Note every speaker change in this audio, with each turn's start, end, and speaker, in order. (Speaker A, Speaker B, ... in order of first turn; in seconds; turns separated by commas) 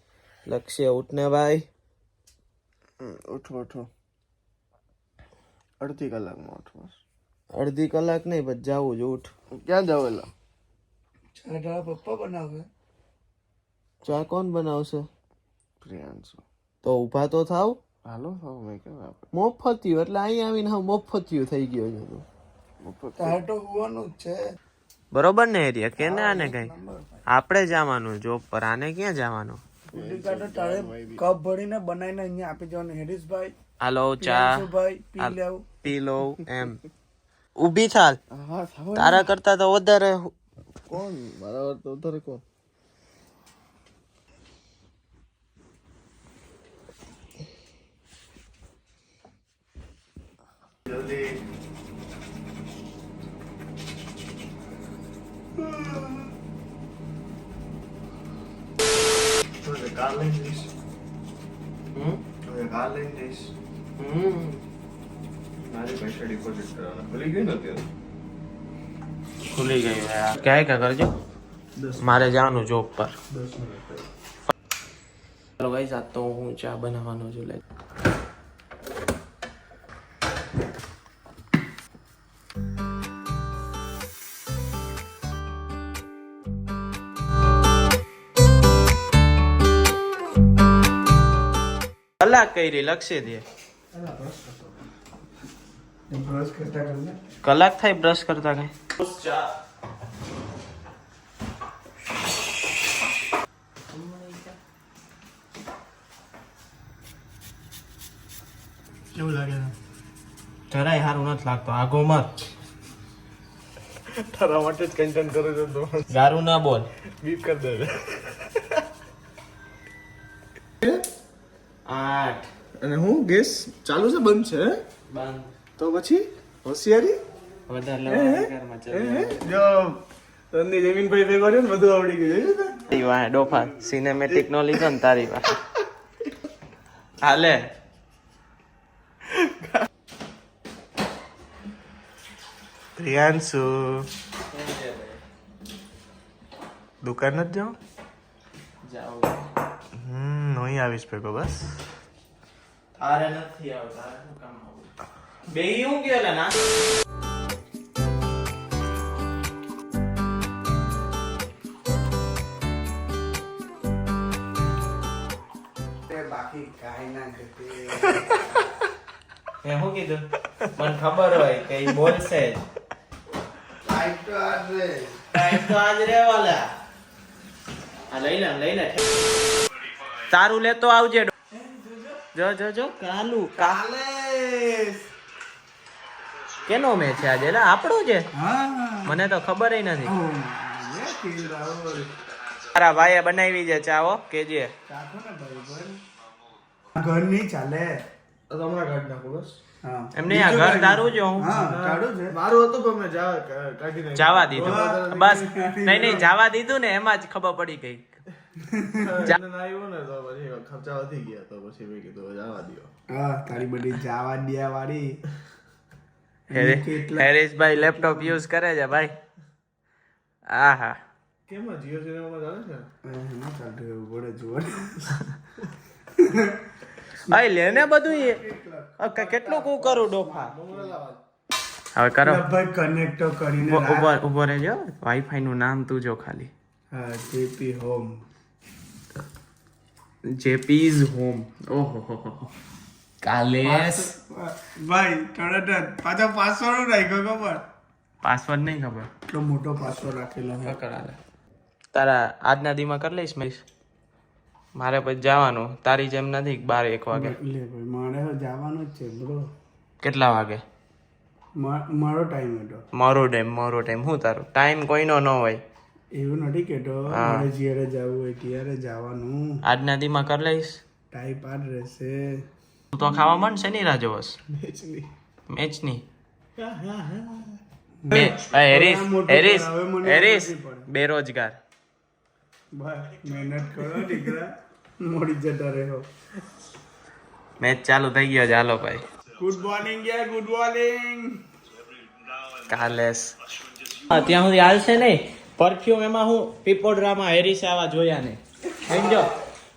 Speaker A: 0.5-1.7, Speaker B: 3.0-3.9, Speaker B: 5.8-7.0, Speaker A: 7.5-9.3, Speaker B: 9.6-10.3, Speaker C: 11.4-12.7, Speaker A: 14.1-15.1, Speaker B: 15.8-16.4, Speaker A: 16.8-17.8, Speaker B: 18.1-19.3, Speaker A: 19.3-22.2, Speaker B: 22.8-23.4, Speaker C: 23.2-24.4, Speaker A: 25.1-26.7, Speaker C: 26.0-27.2, Speaker A: 27.3-29.6, Speaker C: 29.9-33.5, Speaker B: 29.9-31.2, Speaker A: 33.8-34.6, Speaker C: 34.2-35.6, Speaker A: 35.2-36.8, Speaker A: 37.6-38.2, Speaker B: 38.3-39.3, Speaker A: 39.0-40.3, Speaker B: 40.9-42.4, Speaker B: 50.9-51.4, Speaker B: 59.6-60.7, Speaker A: 62.0-62.2, Speaker B: 62.4-63.5, Speaker A: 64.0-64.6, Speaker B: 65.6-67.9, Speaker A: 69.5-71.1, Speaker A: 72.0-73.2, Speaker A: 75.6-77.6, Speaker A: 92.2-93.4, Speaker B: 93.9-94.8, Speaker C: 96.1-97.2, Speaker A: 97.4-99.5, Speaker A: 103.9-104.5, Speaker C: 109.2-109.6, Speaker A: 110.7-112.3, Speaker B: 114.2-116.1, Speaker A: 116.1-116.9, Speaker B: 117.2-118.8, Speaker A: 121.9-122.5, Speaker B: 122.8-124.8, Speaker A: 125.1-125.5, Speaker B: 125.8-127.2, Speaker A: 127.7-129.4, Speaker B: 128.1-130.0, Speaker B: 130.5-132.9, Speaker A: 132.9-135.6, Speaker B: 134.3-134.8, Speaker A: 137.2-137.6, Speaker B: 143.0-144.1, Speaker A: 144.5-145.2, Speaker B: 147.0-147.8, Speaker A: 148.8-149.5, Speaker B: 150.0-151.8, Speaker A: 153.0-154.9, Speaker A: 155.5-156.6, Speaker C: 166.1-168.7, Speaker A: 169.6-172.6, Speaker C: 173.8-175.2, Speaker A: 175.3-176.7, Speaker A: 178.1-179.0, Speaker A: 180.3-181.3, Speaker C: 181.5-182.2, Speaker A: 182.3-183.8, Speaker C: 183.7-185.1, Speaker A: 186.7-188.3, Speaker C: 188.3-189.1, Speaker A: 189.1-190.1, Speaker C: 190.1-192.2, Speaker A: 192.7-194.7, Speaker C: 194.9-196.0, Speaker C: 196.9-198.0, Speaker B: 198.5-199.6, Speaker C: 199.8-202.4, Speaker A: 200.2-201.5, Speaker B: 201.5-206.3, Speaker A: 204.2-208.2, Speaker C: 204.6-206.2, Speaker C: 208.7-209.1, Speaker B: 208.9-212.9, Speaker C: 213.1-215.2, Speaker A: 216.5-219.1, Speaker C: 216.5-218.4, Speaker A: 220.5-221.0, Speaker B: 221.5-222.9, Speaker C: 223.0-225.1, Speaker C: 226.2-226.6, Speaker A: 227.3-228.4, Speaker C: 227.3-230.9, Speaker A: 229.0-230.6, Speaker B: 229.6-231.2, Speaker A: 231.9-232.4, Speaker C: 232.2-234.1, Speaker A: 233.6-236.5, Speaker C: 236.9-238.2, Speaker A: 240.2-242.5, Speaker A: 243.2-244.1, Speaker C: 243.7-247.6, Speaker A: 248.2-249.1, Speaker C: 249.3-250.8, Speaker A: 250.6-251.2, Speaker A: 251.9-253.6, Speaker A: 254.8-257.4, Speaker C: 257.1-259.4, Speaker A: 260.0-260.6, Speaker C: 261.6-262.8, Speaker A: 262.9-265.6, Speaker C: 266.2-269.4, Speaker A: 267.1-267.5, Speaker A: 269.6-270.8, Speaker C: 271.1-272.2, Speaker A: 272.9-274.4, Speaker B: 274.5-275.1, Speaker A: 275.5-276.1, Speaker B: 276.6-277.6, Speaker C: 278.1-280.9, Speaker A: 278.1-281.6, Speaker C: 282.8-284.5, Speaker C: 285.0-286.1, Speaker A: 287.6-289.1, Speaker C: 289.4-291.4, Speaker A: 292.6-293.3, Speaker A: 294.0-299.3, Speaker C: 298.9-299.3